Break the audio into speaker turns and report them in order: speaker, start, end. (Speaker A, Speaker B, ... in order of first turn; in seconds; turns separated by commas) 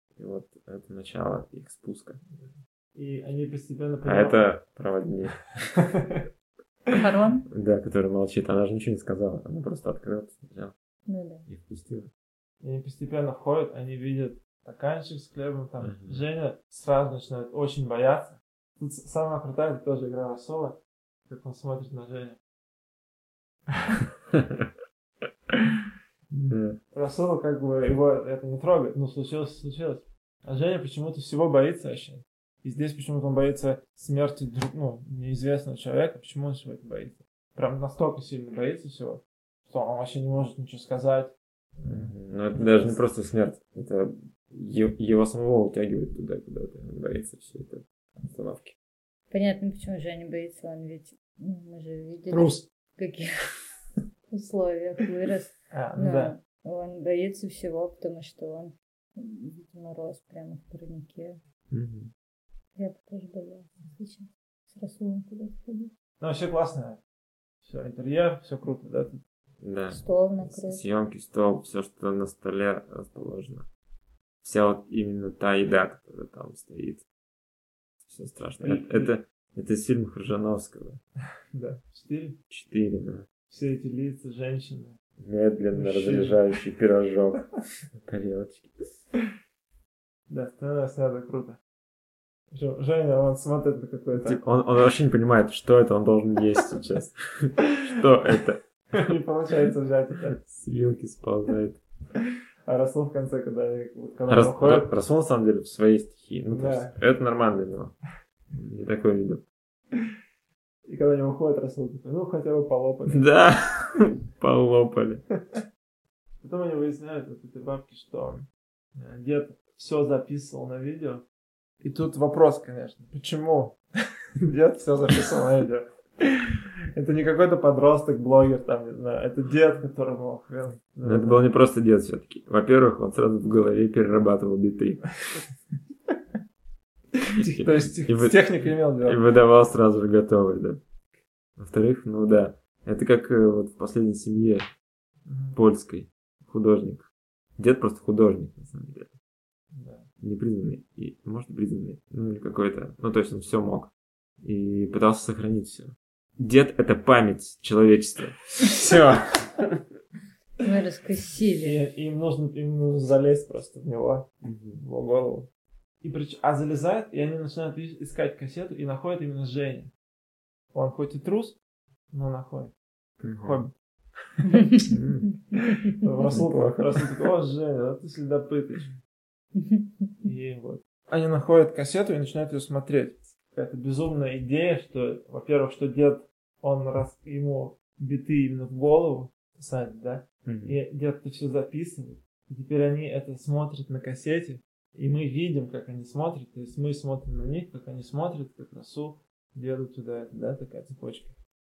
Speaker A: 0.2-2.2, Speaker B: 3.0-4.5, Speaker A: 4.0-5.5, Speaker B: 5.8-6.2, Speaker C: 6.9-7.5, Speaker A: 7.5-10.7, Speaker C: 11.1-11.5, Speaker A: 11.5-12.1, Speaker B: 12.6-22.4, Speaker A: 15.8-16.2, Speaker B: 23.8-24.1, Speaker A: 24.3-24.7, Speaker B: 26.3-43.0, Speaker A: 26.5-26.8, Speaker A: 41.9-48.8, Speaker C: 49.3-53.3, Speaker B: 52.3-52.6, Speaker C: 54.3-61.4, Speaker B: 55.7-56.4, Speaker A: 61.7-62.1, Speaker C: 62.8-65.9, Speaker B: 66.2-67.0, Speaker B: 67.7-69.2, Speaker A: 69.6-73.7, Speaker C: 69.9-70.8, Speaker A: 74.4-77.0, Speaker A: 78.1-81.0, Speaker B: 78.6-79.1, Speaker B: 81.5-82.4, Speaker A: 82.5-83.3, Speaker B: 83.5-85.0, Speaker A: 85.2-88.9, Speaker B: 85.7-86.5, Speaker B: 90.3-91.6, Speaker B: 92.5-94.4, Speaker A: 94.2-99.1, Speaker B: 98.9-100.4, Speaker A: 100.4-101.8, Speaker B: 102.7-104.9, Speaker A: 104.3-108.0, Speaker B: 106.5-107.0, Speaker A: 108.5-109.4, Speaker B: 110.9-113.3, Speaker A: 113.1-115.2, Speaker B: 116.4-121.2, Speaker B: 121.8-123.8, Speaker B: 124.4-131.4, Speaker A: 131.0-135.1, Speaker B: 137.2-139.2, Speaker A: 137.4-140.8, Speaker A: 141.6-144.7, Speaker B: 145.3-145.6, Speaker A: 145.6-149.1, Speaker B: 149.7-150.1, Speaker A: 150.2-153.9, Speaker A: 154.4-159.8, Speaker C: 160.6-161.8, Speaker B: 161.6-165.5, Speaker A: 164.4-164.8, Speaker B: 166.0-169.9, Speaker B: 170.7-171.6, Speaker B: 172.1-172.7, Speaker A: 173.2-173.6, Speaker B: 173.4-173.7, Speaker B: 174.4-174.6, Speaker C: 174.4-175.9, Speaker A: 174.9-175.3, Speaker B: 176.0-178.9, Speaker A: 176.3-177.1, Speaker C: 179.6-180.3, Speaker B: 180.2-201.4, Speaker A: 190.4-190.8